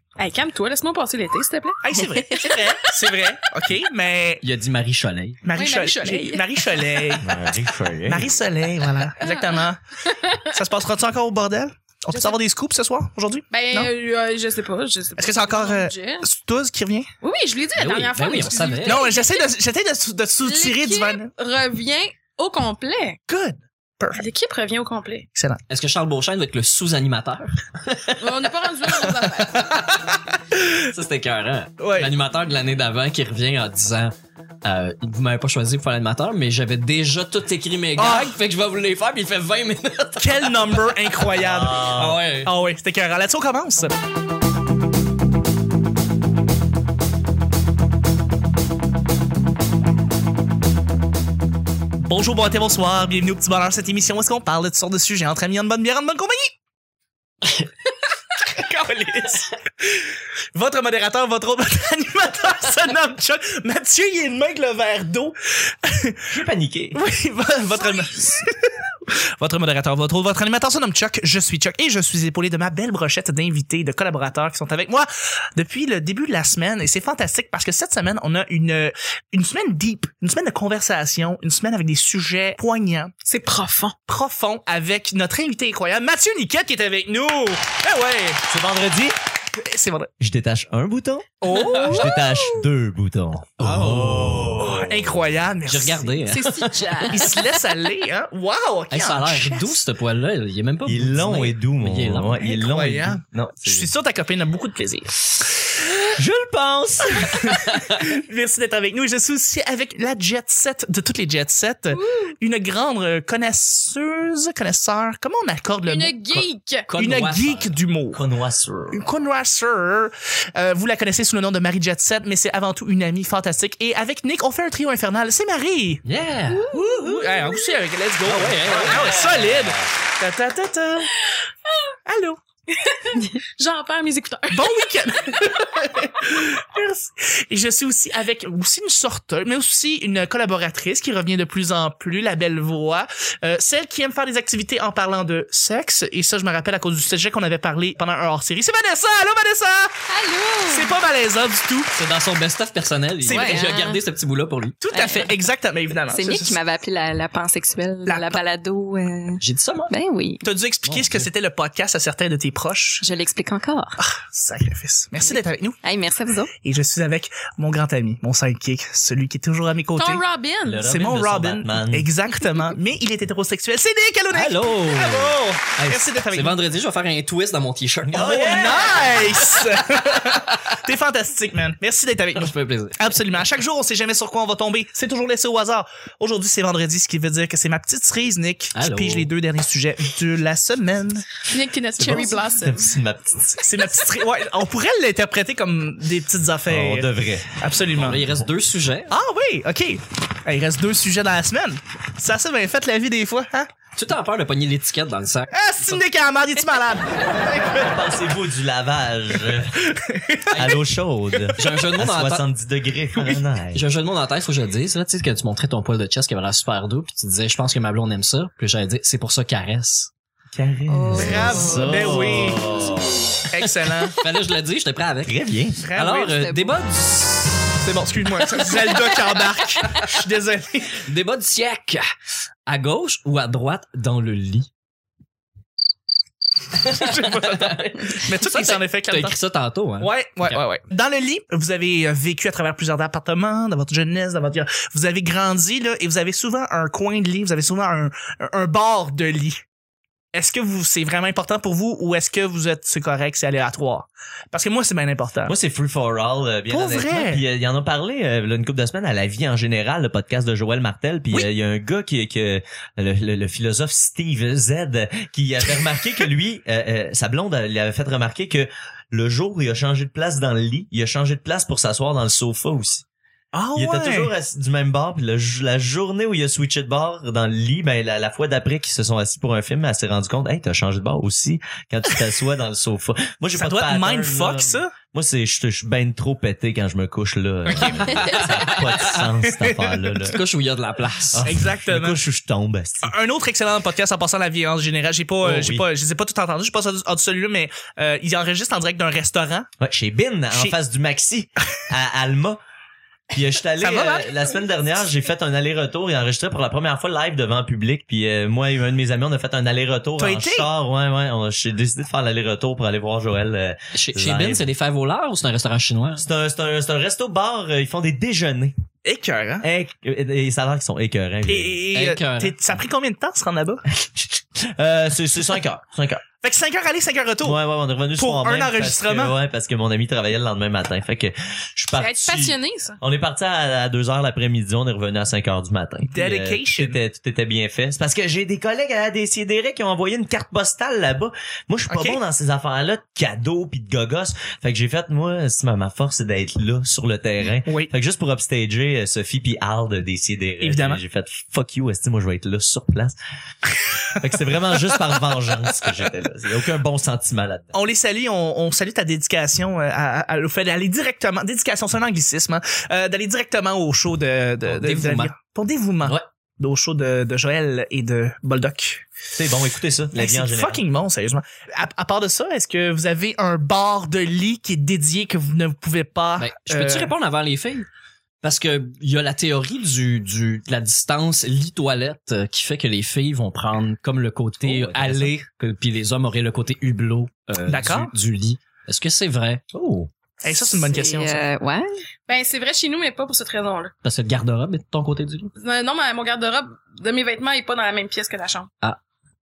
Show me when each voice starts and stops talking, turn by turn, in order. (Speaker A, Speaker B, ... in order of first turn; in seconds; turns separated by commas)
Speaker A: 0.2-2.6, Speaker B: 1.8-4.4, Speaker C: 4.4-5.4, Speaker B: 5.4-9.8, Speaker A: 5.5-6.9, Speaker D: 7.2-8.4, Speaker A: 9.2-10.5, Speaker B: 10.4-13.9, Speaker A: 13.5-16.2, Speaker B: 15.2-17.1, Speaker A: 17.2-19.5, Speaker C: 17.8-19.1, Speaker B: 18.8-21.3, Speaker A: 20.4-23.2, Speaker B: 23.3-24.2, Speaker A: 24.1-25.3, Speaker B: 25.3-25.6, Speaker C: 25.7-29.9, Speaker A: 28.2-29.7, Speaker B: 29.6-30.6, Speaker C: 30.7-41.3, Speaker B: 31.8-32.1, Speaker B: 38.0-38.4, Speaker B: 40.2-43.9, Speaker D: 41.4-42.2, Speaker C: 41.9-42.5, Speaker B: 52.0-56.5, Speaker B: 58.5-60.0, Speaker B: 60.5-66.2, Speaker D: 66.3-67.0, Speaker B: 66.9-83.1, Speaker A: 83.2-84.0, Speaker B: 84.0-88.4, Speaker D: 88.5-89.2, Speaker B: 89.5-90.1, Speaker D: 90.2-95.2, Speaker B: 91.4-92.1, Speaker E: 91.5-92.0, Speaker C: 91.6-91.9, Speaker A: 91.7-92.2, Speaker C: 93.6-94.6, Speaker B: 94.5-96.2, Speaker C: 95.7-97.1, Speaker E: 96.2-97.3, Speaker B: 97.1-99.8, Speaker C: 98.9-102.6, Speaker D: 100.8-103.9, Speaker B: 102.6-105.9, Speaker D: 106.2-107.5, Speaker B: 107.1-116.2, Speaker A: 111.9-112.3, Speaker A: 115.8-116.9, Speaker C: 116.9-117.8, Speaker B: 117.0-118.2, Speaker D: 118.1-119.0, Speaker B: 118.9-126.0, Speaker C: 126.0-126.9, Speaker E: 126.7-127.1, Speaker B: 126.7-131.2, Speaker C: 128.2-129.2, Speaker D: 128.7-129.9, Speaker B: 132.1-132.4, Speaker A: 132.8-134.8, Speaker B: 134.5-150.1, Speaker E: 150.1-150.9, Speaker B: 150.7-151.9, Speaker C: 151.9-154.8, Speaker B: 153.2-153.7, Speaker E: 153.2-154.0, Speaker B: 154.8-156.6, Speaker E: 154.9-155.4, Speaker E: 156.1-160.4, Speaker B: 158.1-158.4, Speaker C: 159.4-159.9, Speaker B: 160.4-163.1, Speaker C: 160.8-161.3, Speaker E: 163.0-164.0, Speaker B: 164.0-165.8, Speaker E: 165.8-166.5, Speaker B: 166.6-170.2, Speaker A: 170.0-170.9, Speaker D: 170.6-172.1, Speaker B: 170.8-176.6, Speaker C: 174.3-179.8, Speaker D: 178.1-179.2, Speaker B: 178.2-191.2, Speaker C: 182.3-183.3, Speaker C: 188.8-189.3, Speaker A: 191.5-193.0, Speaker D: 192.0-193.7, Speaker B: 193.6-198.3, Speaker D: 196.7-197.5, Speaker C: 198.0-199.1, Speaker D: 198.2-198.4, Speaker B: 199.1-203.7, Speaker C: 203.9-206.0, Speaker B: 205.5-207.6, Speaker D: 207.5-209.8, Speaker B: 209.8-211.6, Speaker D: 210.5-213.8, Speaker C: 211.6-212.4, Speaker B: 213.2-213.4, Speaker C: 213.7-220.1, Speaker D: 220.5-223.2, Speaker E: 220.9-223.0, Speaker B: 221.1-222.7, Speaker B: 223.5-224.2, Speaker C: 224.1-227.8, Speaker D: 225.2-225.8, Speaker B: 225.8-226.4, Speaker E: 226.4-226.8, Speaker B: 227.8-231.0, Speaker C: 231.0-232.0, Speaker C: 232.7-234.7, Speaker C: 236.8-240.6, Speaker B: 236.8-239.4, Speaker B: 240.0-249.6, Speaker B: 250.3-255.5, Speaker D: 255.5-273.1, Speaker B: 256.7-257.4, Speaker B: 273.5-274.3, Speaker D: 273.8-290.4, Speaker B: 283.5-284.9, Speaker B: 287.7-288.4, Speaker C: 287.8-289.2, Speaker B: 289.1-290.1, Speaker C: 290.2-291.5, Speaker D: 291.3-293.1, Speaker B: 291.4-292.2, Speaker B: 293.0-299.7, Speaker D: 295.4-295.9, Speaker D: 299.8-302.6, Speaker D: 303.3-314.6, Speaker B: 303.8-304.4, Speaker B: 310.2-310.7, Speaker C: 313.9-316.3, Speaker D: 316.2-318.7, Speaker B: 319.0-319.6, Speaker D: 319.6-321.8, Speaker B: 321.5-323.8, Speaker C: 321.9-322.6, Speaker D: 324.2-326.2, Speaker B: 326.4-327.6, Speaker D: 327.4-353.2, Speaker B: 328.2-329.4, Speaker A: 331.9-333.0, Speaker B: 336.1-337.0, Speaker B: 341.9-342.2, Speaker B: 347.7-347.9, Speaker B: 350.6-351.0, Speaker D: 354.2-357.8, Speaker B: 357.7-369.1, Speaker C: 364.6-365.3, Speaker D: 369.4-370.8, Speaker B: 370.1-377.1, Speaker C: 376.4-377.9, Speaker C: 378.4-389.6, Speaker D: 384.6-385.3, Speaker B: 387.7-388.1, Speaker D: 389.7-390.1, Speaker B: 390.4-391.4, Speaker E: 390.9-391.9, Speaker A: 392.3-393.9, Speaker C: 394.0-395.5, Speaker A: 395.6-398.7